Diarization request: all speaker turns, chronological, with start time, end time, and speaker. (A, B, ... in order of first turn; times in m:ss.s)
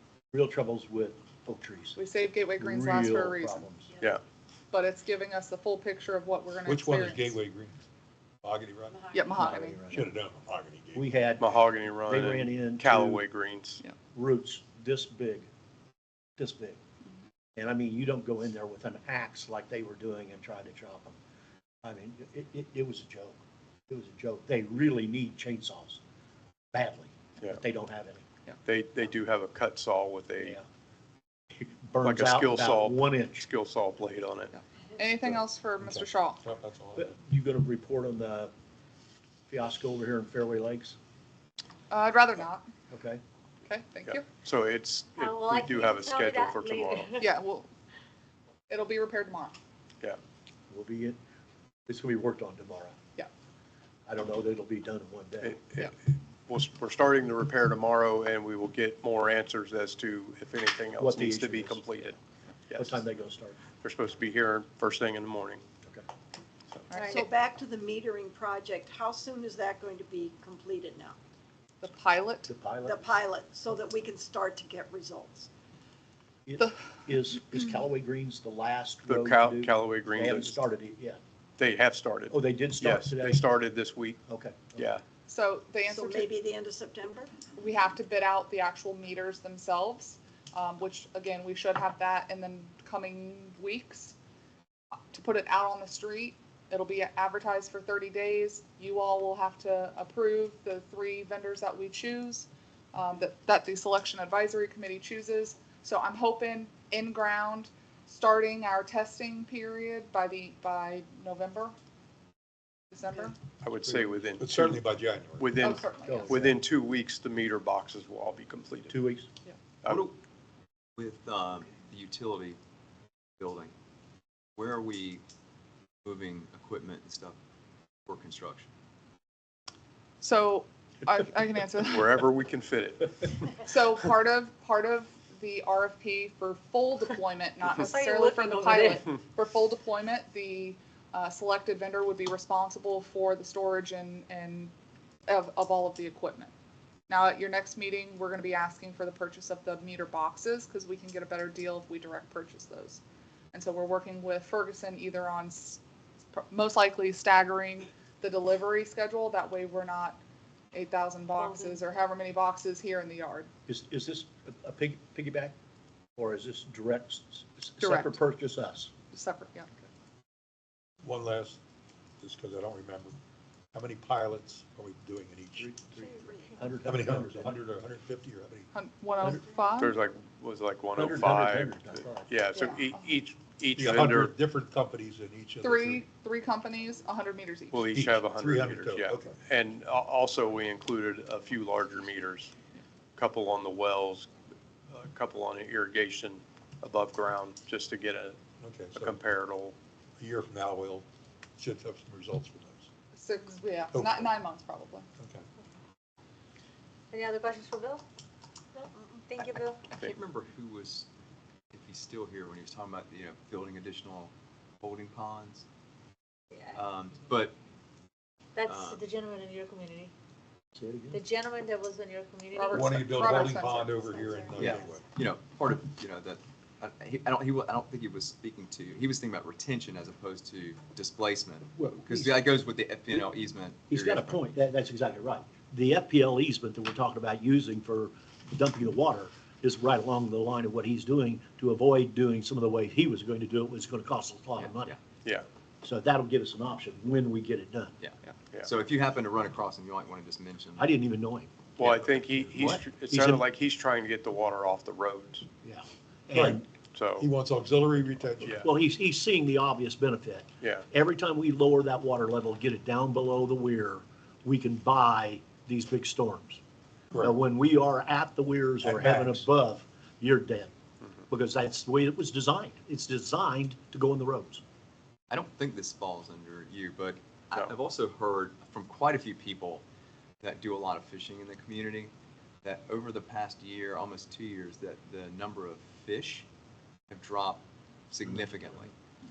0:00.3-0:02.0 A
0:02.0-0:03.7 B
0:02.6-0:03.9 A
0:04.7-0:07.4 B
0:06.6-0:07.8 C
0:08.4-0:09.0 C
0:09.1-0:09.8 B
0:09.4-0:10.1 A
0:09.9-0:11.1 C
0:10.9-0:13.2 A
0:11.4-0:13.8 D
0:14.1-0:15.5 A
0:16.4-0:16.8 A
0:17.6-0:21.2 A
0:21.8-0:26.0 A
0:26.7-0:28.2 A
0:28.6-0:30.6 D
0:31.6-0:33.4 A
0:32.0-0:34.5 D
0:34.5-0:36.4 B
0:36.0-0:37.1 C
0:36.9-0:38.5 A
0:39.5-0:41.0 A
0:41.9-0:42.7 B
0:42.9-0:43.2 A
0:43.6-0:44.3 B
0:44.0-0:47.1 D
0:45.2-0:47.3 E
0:47.2-0:47.7 B
0:48.7-0:49.6 B
0:50.7-0:51.2 A
0:51.9-0:53.0 A
0:54.1-0:55.6 A
0:55.4-0:55.9 D
0:56.5-1:02.2 D
1:01.0-1:02.2 A
1:02.7-1:03.0 D
1:02.7-1:03.6 A
1:03.8-1:05.6 D
1:06.9-1:07.3 B
1:06.9-1:07.2 E
1:07.0-1:11.2 F
1:11.8-1:12.5 B
1:12.4-1:13.1 A
1:12.8-1:15.5 F
1:16.4-1:21.2 A
1:19.0-1:20.6 D
1:21.6-1:24.2 D
1:22.3-1:23.5 A
1:24.3-1:24.9 A
1:24.8-1:25.0 D
1:25.3-1:26.3 B
1:25.8-1:27.3 F
1:27.5-1:34.1 B
1:35.1-1:51.7 B
1:52.9-1:53.4 B
1:53.6-1:54.8 D
1:53.8-1:55.6 C
1:55.4-1:59.0 D
1:55.6-1:56.5 B
1:56.0-1:56.6 A
1:58.9-1:59.3 A
1:59.8-2:00.1 D
1:59.8-2:00.2 G
2:01.0-2:02.6 G
2:03.4-2:03.7 G
2:04.6-2:05.2 G
2:06.0-2:07.4 G
2:08.0-2:08.7 G
2:10.2-2:12.1 B
2:11.8-2:13.5 D
2:13.6-2:24.7 B
2:17.8-2:19.1 E
2:25.3-2:26.5 B
2:27.1-2:33.0 B
2:33.5-2:35.8 B
2:36.3-2:40.2 B
2:40.7-2:43.5 B
2:41.3-2:41.8 E
2:43.7-2:45.5 A
2:46.2-2:48.9 A
2:47.8-2:48.2 B
2:49.1-2:49.7 B
2:51.0-2:51.6 C
2:52.2-2:53.2 C
2:53.7-2:55.7 C
2:55.6-2:57.5 A
2:56.8-2:58.7 C
2:58.7-2:59.9 B
2:59.8-3:04.3 D
3:00.9-3:02.3 A
3:02.5-3:03.1 B
3:03.7-3:06.0 C
3:05.6-3:07.8 B
3:07.7-3:12.5 D
3:07.9-3:09.4 C
3:13.2-3:14.3 D
3:14.9-3:18.4 D
3:18.6-3:19.2 C
3:18.9-3:19.7 D
3:20.2-3:21.0 C
3:21.6-3:22.9 C
3:23.1-3:25.1 B
3:23.9-3:24.3 C
3:25.2-3:25.4 C
3:27.1-3:28.0 E
3:28.7-3:29.8 E
3:29.4-3:31.1 G
3:31.7-3:35.6 G
3:36.7-3:37.6 G
3:38.6-3:40.1 E
3:38.6-3:39.0 G
3:40.7-3:41.2 A
3:41.1-3:43.3 E
3:42.5-3:44.3 B
3:42.7-3:45.0 C
3:44.6-3:54.5 G
3:51.8-3:52.4 A
3:53.9-4:05.0 A
4:04.6-4:04.9 G
4:05.8-4:08.0 A
4:08.0-4:10.9 G
4:10.8-4:13.4 A
4:11.8-4:15.4 D
4:15.6-4:16.6 A
4:16.3-4:16.6 C
4:16.9-4:17.3 D
4:17.2-4:18.6 C
4:18.6-4:26.6 A
4:27.2-4:30.7 A
4:28.8-4:29.4 C
4:31.3-4:34.6 A
4:35.3-4:39.8 G
4:40.4-4:42.1 G
4:42.6-4:46.4 G
4:47.1-4:48.9 G